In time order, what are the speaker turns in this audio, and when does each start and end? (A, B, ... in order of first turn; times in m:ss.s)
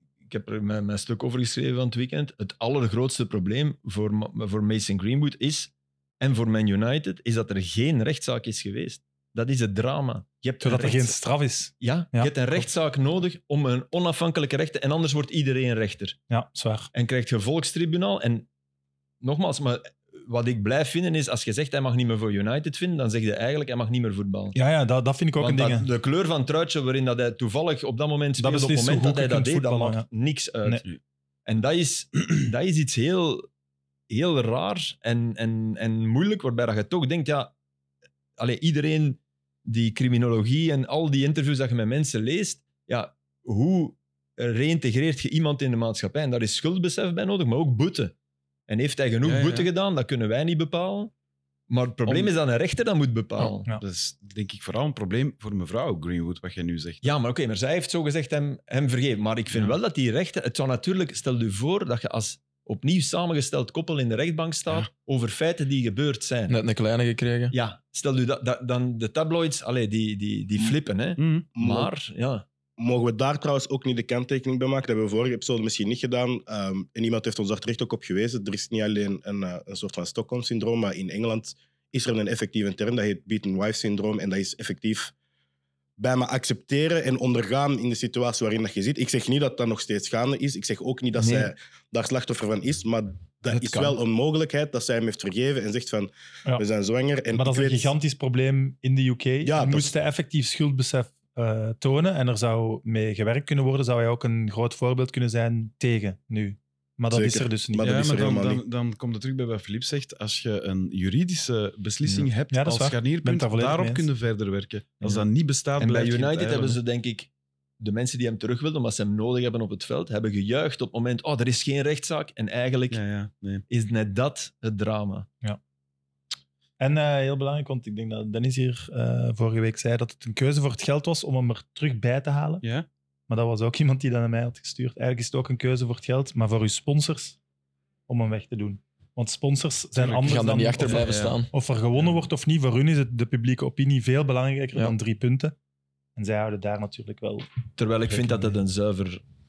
0:00.3-0:11.2 A
0:10.6-0:12.6 B
0:11.8-0:16.2 A
0:16.3-0:16.9 B
0:16.9-0:18.5 A
0:19.2-0:24.6 A
0:24.5-0:25.9 B
0:25.4-0:30.8 A
0:28.4-0:30.0 B
0:31.4-0:33.5 A
0:34.1-0:37.5 A
0:38.4-0:48.1 A
0:48.7-0:51.1 A
0:49.2-0:49.7 C
0:51.7-0:53.7 A
0:52.0-0:52.3 C
0:53.5-0:53.8 B
0:53.8-0:57.1 C
0:57.0-1:06.6 A
1:06.5-1:07.5 D
1:07.5-1:12.4 A
1:11.2-1:11.5 C
1:11.6-1:11.9 E
1:12.8-1:25.1 E
1:26.0-1:37.9 E
1:31.2-1:31.5 A
1:33.5-1:34.0 A
1:37.3-1:48.0 B
1:39.4-1:39.9 E
1:47.1-1:48.6 E
1:47.8-1:56.8 C
1:52.0-1:52.3 A
1:52.5-1:54.0 B
1:55.8-2:03.0 A
2:02.9-2:03.6 C
2:03.7-2:05.3 A
2:06.8-2:12.6 B
2:12.6-2:12.9 C
2:13.3-2:17.4 B
2:18.1-2:25.6 B
2:20.1-2:21.5 D
2:20.8-2:21.4 A
2:26.2-2:27.5 B
2:27.8-2:29.2 A
2:28.1-2:28.6 B